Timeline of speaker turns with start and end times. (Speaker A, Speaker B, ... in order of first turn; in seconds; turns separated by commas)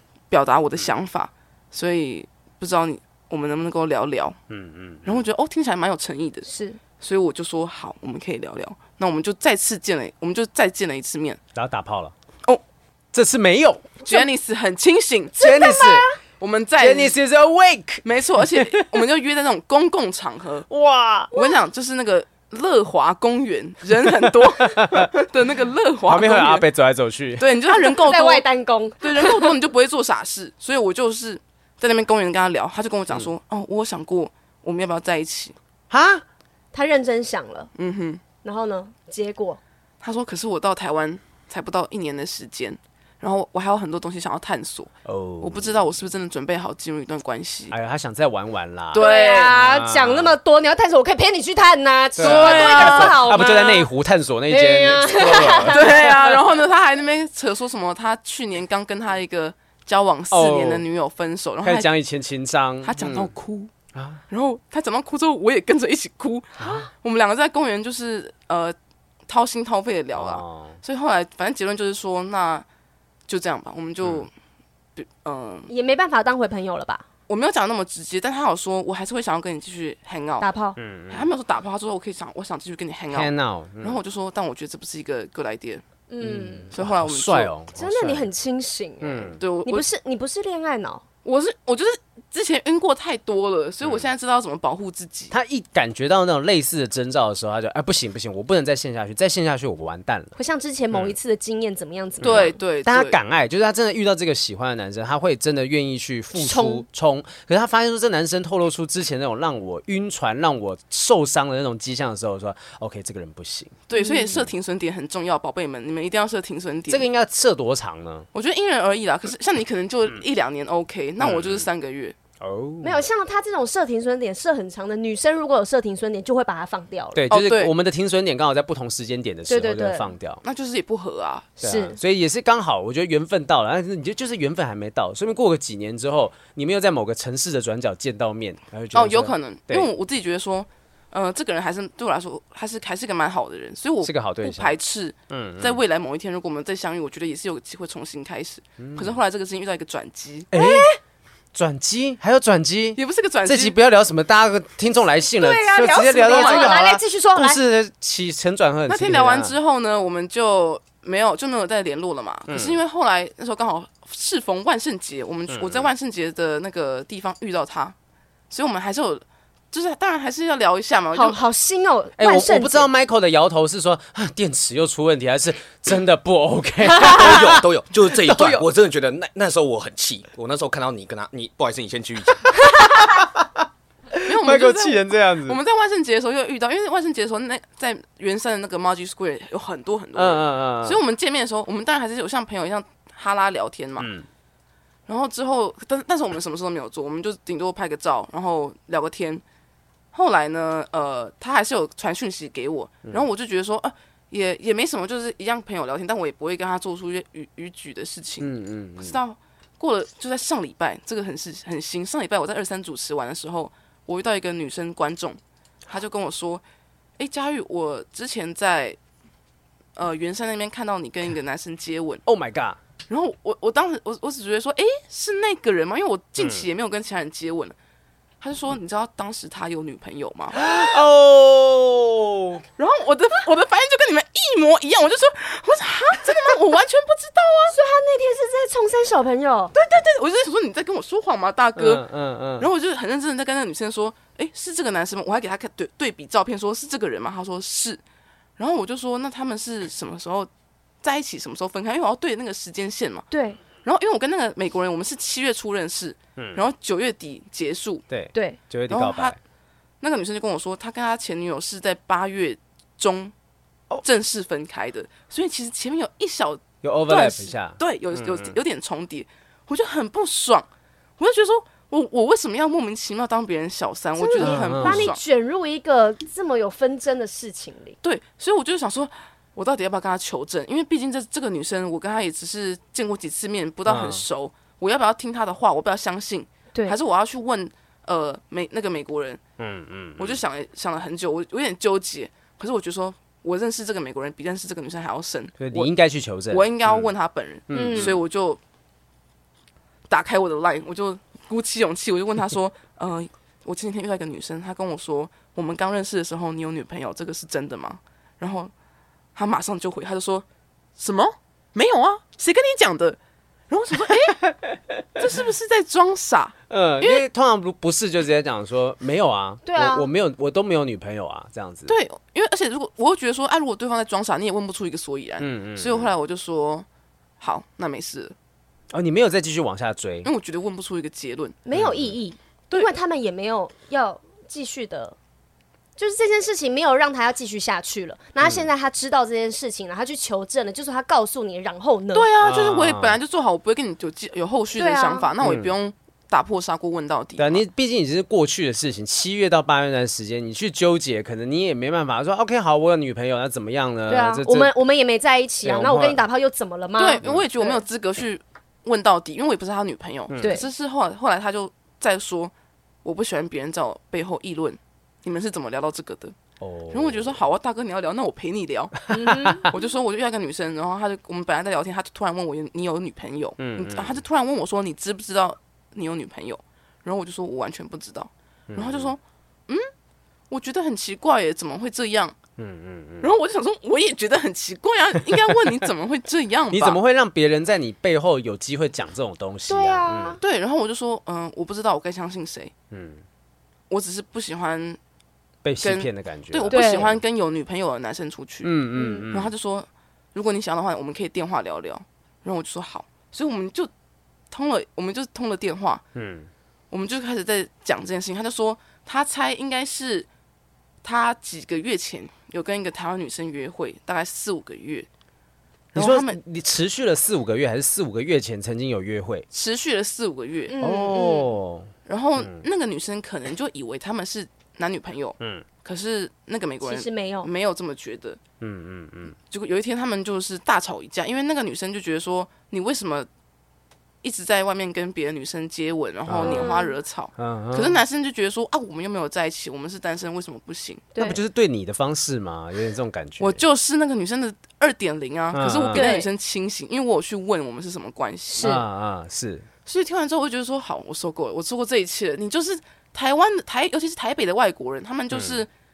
Speaker A: 0.3-4.4, Speaker B: 4.5-5.2, Speaker A: 5.0-6.5, Speaker C: 6.5-6.8, Speaker A: 7.0-11.4, Speaker B: 11.5-12.1, Speaker B: 13.1-13.9, Speaker A: 14.0-15.6, Speaker B: 15.4-16.1, Speaker C: 15.4-16.2, Speaker A: 16.4-17.1, Speaker B: 16.8-18.9, Speaker A: 18.0-20.7, Speaker B: 20.7-21.3, Speaker C: 21.3-21.6, Speaker A: 21.3-26.6, Speaker B: 24.2-25.1, Speaker B: 26.1-27.5, Speaker A: 27.4-28.4, Speaker C: 27.7-29.5, Speaker A: 29.0-35.5, Speaker B: 35.9-36.2, Speaker C: 36.7-37.7, Speaker A: 37.8-38.2, Speaker C: 38.4-39.6, Speaker A: 40.0-47.7, Speaker B: 45.0-45.8, Speaker B: 47.7-50.4, Speaker A: 48.9-49.6, Speaker C: 49.0-53.9, Speaker B: 52.1-56.1, Speaker A: 52.2-53.5, Speaker C: 54.5-56.3, Speaker A: 55.7-61.9, Speaker B: 60.3-60.8, Speaker B: 61.6-63.3, Speaker A: 62.8-63.7, Speaker B: 63.9-64.2, Speaker A: 64.3-68.7, Speaker B: 66.6-66.8, Speaker A: 69.3-72.6, Speaker B: 70.1-70.8, Speaker A: 73.3-74.3, Speaker A: 75.0-75.7, Speaker C: 75.7-77.0, Speaker A: 77.3-80.5, Speaker C: 80.4-80.8, Speaker B: 80.8-81.3, Speaker A: 81.1-85.8, Speaker B: 83.1-84.0, Speaker C: 86.1-86.7, Speaker B: 86.2-88.3, Speaker A: 86.7-87.5, Speaker C: 87.7-91.0, Speaker B: 89.0-89.4, Speaker A: 89.4-89.9, Speaker A: 91.2-95.3, Speaker B: 93.8-94.1, Speaker B: 95.3-100.3, Speaker C: 100.3-102.5, Speaker B: 102.2-113.8, Speaker A: 102.2-103.2, Speaker C: 106.3-106.8, Speaker A: 113.9-117.0, Speaker C: 113.9-114.4, Speaker B: 116.9-118.3, Speaker A: 118.3-122.1, Speaker B: 121.2-121.7, Speaker B: 122.4-123.0, Speaker C: 122.8-127.2, Speaker B: 127.1-130.4, Speaker A: 127.3-127.7, Speaker C: 129.5-130.1, Speaker A: 130.4-131.6, Speaker C: 131.6-132.0, Speaker B: 131.6-139.9, Speaker A: 138.9-150.5, Speaker B: 144.0-144.8, Speaker B: 145.3-145.8, Speaker B: 148.8-149.2, Speaker B: 150.5-150.9, Speaker C: 150.5-151.0, Speaker B: 151.5-159.5, Speaker A: 152.9-153.7, Speaker C: 155.4-157.6, Speaker A: 156.2-156.8, Speaker A: 158.9-167.9, Speaker B: 162.5-162.8, Speaker B: 165.5-165.8, Speaker A: 168.5-171.4, Speaker C: 171.1-172.9, Speaker B: 172.2-177.6, Speaker D: 177.0-182.4, Speaker B: 178.2-178.6, Speaker B: 182.8-183.5, Speaker B: 184.2-185.6, Speaker A: 184.2-194.1, Speaker B: 190.2-191.0, Speaker B: 194.0-194.2, Speaker A: 195.1-199.4, Speaker A: 200.1-216.6, Speaker B: 208.4-209.2, Speaker A: 217.2-219.0, Speaker A: 219.9-222.2, Speaker B: 222.2-222.8, Speaker A: 223.1-227.7, Speaker B: 226.4-226.6, Speaker A: 228.4-230.6, Speaker B: 230.5-232.6, Speaker A: 232.8-237.8, Speaker C: 237.7-239.7, Speaker A: 239.7-242.0, Speaker B: 241.8-242.7, Speaker A: 242.6-248.0, Speaker A: 248.6-250.5, Speaker A: 251.0-253.2, Speaker C: 253.3-253.6, Speaker A: 253.8-258.0, Speaker B: 258.1-259.4, Speaker C: 258.3-258.6, Speaker A: 258.9-259.4, Speaker A: 260.0-263.3, Speaker A: 264.0-270.7, Speaker B: 266.8-268.6, Speaker A: 271.2-275.2, Speaker C: 274.2-277.9, Speaker B: 274.4-275.1, Speaker A: 278.0-289.4, Speaker B: 283.9-284.2, Speaker B: 289.6-290.4, Speaker A: 290.2-295.9, Speaker B: 295.6-297.1, Speaker A: 296.5-298.6, Speaker B: 297.7-298.2, Speaker C: 297.7-298.1, Speaker A: 300.1-308.7, Speaker A: 309.4-310.4, Speaker A: 311.0-313.2, Speaker A: 313.7-314.4, Speaker B: 314.3-315.0, Speaker A: 315.2-317.2, Speaker B: 316.7-321.9, Speaker C: 319.6-320.1, Speaker A: 321.9-326.9, Speaker B: 325.4-326.1, Speaker A: 327.4-328.3, Speaker B: 328.9-330.3, Speaker A: 330.2-331.6, Speaker C: 331.6-335.1, Speaker B: 331.7-332.1, Speaker C: 336.0-342.3, Speaker B: 338.4-338.7, Speaker A: 342.1-347.6, Speaker B: 342.4-343.1, Speaker C: 344.8-345.3, Speaker B: 345.4-345.7, Speaker B: 347.4-354.7, Speaker C: 354.1-357.8, Speaker B: 355.6-356.2, Speaker A: 357.0-362.5, Speaker B: 360.3-360.6, Speaker A: 363.0-366.3, Speaker B: 366.6-367.4, Speaker A: 366.9-379.9, Speaker C: 369.1-369.7, Speaker B: 369.2-369.6, Speaker B: 373.6-374.2, Speaker B: 378.7-379.1, Speaker A: 380.5-382.4, Speaker B: 382.6-383.3, Speaker A: 383.2-387.0, Speaker B: 386.7-390.4, Speaker C: 389.7-390.4, Speaker A: 390.4-392.7, Speaker B: 392.9-393.2, Speaker A: 393.9-395.0, Speaker B: 395.6-397.2, Speaker A: 395.8-398.7, Speaker C: 396.7-397.1, Speaker B: 398.6-399.5, Speaker C: 398.9-399.3, Speaker A: 399.3-403.9, Speaker A: 404.5-406.0, Speaker B: 406.1-406.5, Speaker A: 406.9-410.3, Speaker A: 411.0-415.1, Speaker A: 415.9-416.4, Speaker B: 415.9-419.4, Speaker A: 419.5-420.7, Speaker C: 420.7-421.5, Speaker B: 420.8-422.6, Speaker A: 422.1-428.4, Speaker B: 425.4-425.6, Speaker C: 426.8-427.5, Speaker B: 428.6-429.3, Speaker A: 429.5-433.3, Speaker A: 434.2-441.1, Speaker B: 436.2-436.7, Speaker C: 436.4-437.0, Speaker B: 437.4-438.0, Speaker C: 441.1-441.4, Speaker B: 441.2-443.6, Speaker A: 443.4-448.7, Speaker B: 445.5-446.1, Speaker C: 445.9-446.3, Speaker C: 448.5-448.8, Speaker B: 448.6-449.7, Speaker A: 449.9-455.7, Speaker B: 455.3-455.6